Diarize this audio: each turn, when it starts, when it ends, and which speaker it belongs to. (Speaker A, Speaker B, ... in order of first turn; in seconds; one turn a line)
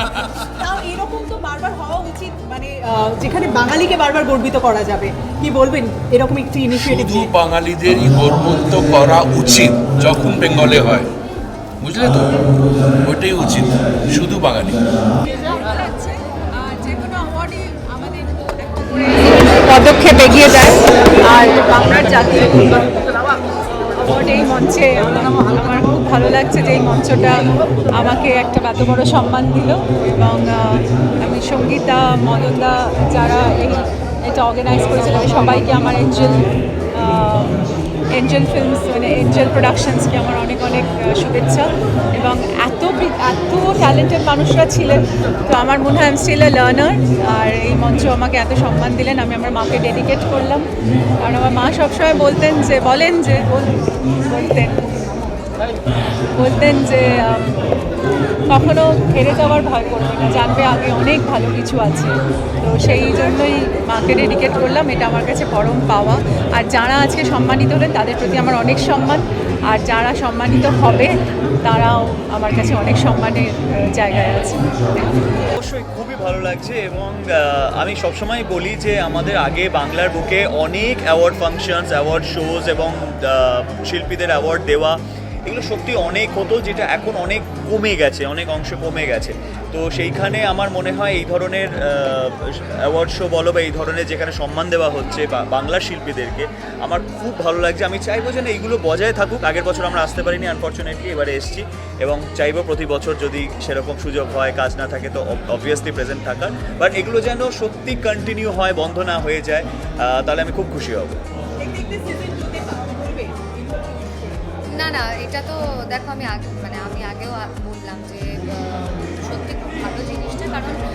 Speaker A: 0.6-7.3
Speaker B: 6.7-11.0
Speaker B: 11.8-12.3
Speaker B: 13.0-14.8
Speaker C: 15.3-23.3
Speaker C: 23.9-37.5
Speaker C: 38.1-50.7
Speaker C: 51.2-55.2
Speaker C: 56.3-57.5
Speaker C: 58.5-75.1
Speaker D: 75.5-85.0
Speaker D: 85.5-92.3
Speaker D: 92.9-111.2
Speaker A: 111.6-114.3
Speaker E: 114.7-120.8